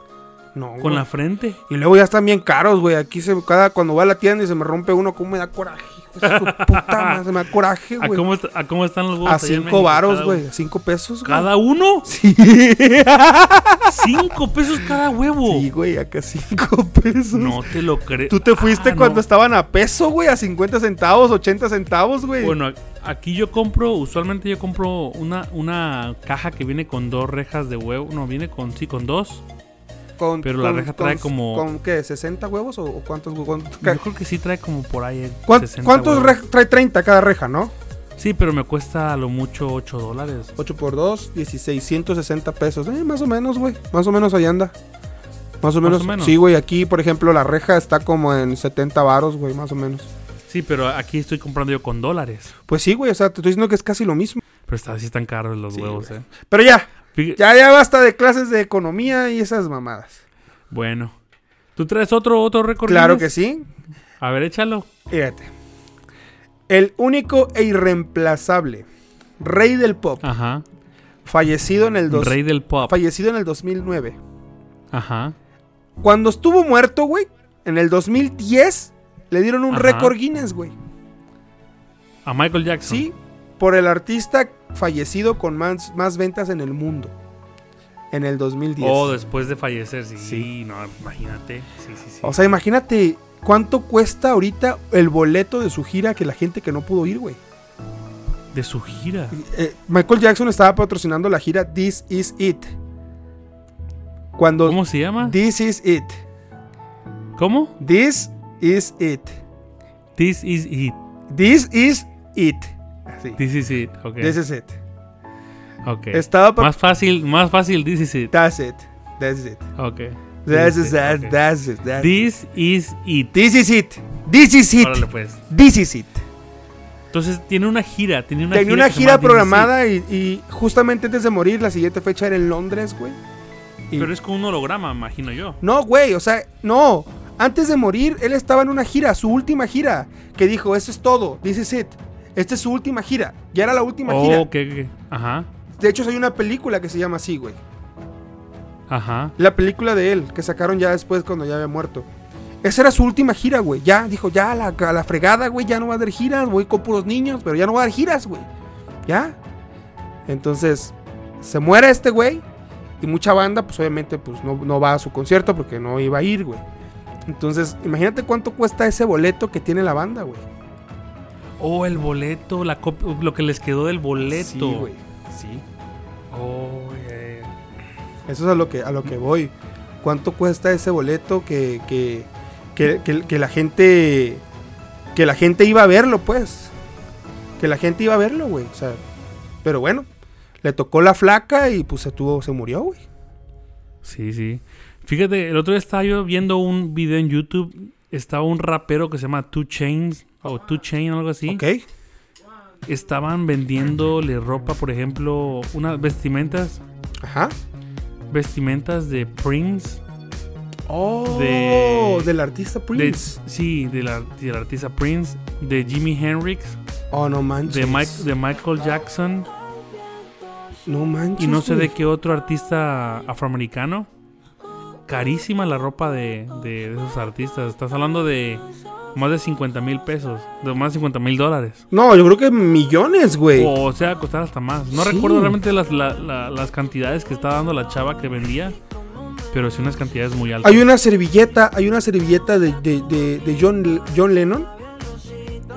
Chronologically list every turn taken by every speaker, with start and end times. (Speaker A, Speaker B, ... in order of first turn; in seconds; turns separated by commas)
Speaker A: 0.5-1.1, Speaker B: 0.8-1.6, Speaker A: 1.7-8.2, Speaker B: 6.2-7.2, Speaker B: 8.0-10.4, Speaker A: 9.2-11.5, Speaker B: 11.2-12.1, Speaker A: 12.1-14.2, Speaker B: 13.9-15.7, Speaker A: 15.4-17.7, Speaker B: 17.3-19.2, Speaker A: 18.3-22.6, Speaker B: 22.4-29.4, Speaker A: 30.2-34.0, Speaker B: 30.4-31.6, Speaker B: 33.8-36.4, Speaker A: 35.5-37.7, Speaker B: 38.2-40.5, Speaker A: 40.6-44.8, Speaker A: 45.6-50.1, Speaker B: 45.8-46.4, Speaker B: 50.5-52.5, Speaker A: 52.7-54.4, Speaker B: 54.6-56.3, Speaker A: 55.7-60.2, Speaker B: 57.1-57.4, Speaker B: 60.7-61.1, Speaker B: 61.8-63.3, Speaker A: 62.9-63.7, Speaker B: 64.2-64.9, Speaker A: 65.1-65.5, Speaker A: 66.7-68.9, Speaker A: 69.4-70.3, Speaker B: 70.2-70.6, Speaker A: 71.2-74.2, Speaker B: 72.1-73.0, Speaker B: 74.9-75.4, Speaker A: 76.0-80.8, Speaker B: 79.7-80.1, Speaker B: 82.2-83.1, Speaker A: 82.9-87.1, Speaker A: 88.1-89.1, Speaker B: 88.8-92.4, Speaker A: 90.2-90.5, Speaker A: 92.2-97.4, Speaker B: 98.5-99.4, Speaker A: 99.3-102.8, Speaker A: 104.3-106.2, Speaker B: 104.6-105.4, Speaker B: 107.4-107.8, Speaker A: 107.8-109.4, Speaker B: 110.2-111.0, Speaker A: 111.3-113.4, Speaker B: 113.4-114.4, Speaker A: 114.2-114.8, Speaker B: 115.8-118.3, Speaker A: 116.1-116.7, Speaker A: 118.3-119.7, Speaker B: 119.8-121.4, Speaker A: 120.5-122.1, Speaker B: 122.0-123.3, Speaker A: 123.3-126.2, Speaker B: 124.8-125.4, Speaker B: 127.1-129.7, Speaker A: 128.5-133.2, Speaker B: 133.9-135.6, Speaker A: 135.6-144.5, Speaker B: 144.1-145.5, Speaker A: 145.8-147.6, Speaker B: 148.9-149.3, Speaker A: 149.4-152.1, Speaker A: 152.6-158.5, Speaker A: 159.1-159.4, Speaker A: 160.3-162.4, Speaker A: 163.0-166.6, Speaker A: 167.3-170.5, Speaker B: 171.6-174.9, Speaker A: 174.3-175.7, Speaker B: 176.3-177.5, Speaker A: 178.3-184.4, Speaker A: 185.2-186.7, Speaker A: 187.6-189.0, Speaker A: 189.6-190.1, Speaker A: 190.6-193.0, Speaker B: 194.0-201.6, Speaker A: 201.5-201.8, Speaker B: 202.9-206.8, Speaker A: 207.2-207.5, Speaker B: 208.3-210.0, Speaker A: 210.9-213.4, Speaker B: 211.2-212.3, Speaker B: 212.9-216.8, Speaker A: 217.1-218.2, Speaker B: 217.7-219.5, Speaker A: 220.9-221.9, Speaker B: 221.4-224.1, Speaker B: 225.1-231.8, Speaker A: 231.9-233.7, Speaker B: 233.6-238.8, Speaker A: 234.9-235.6, Speaker B: 239.5-240.9, Speaker A: 240.6-244.7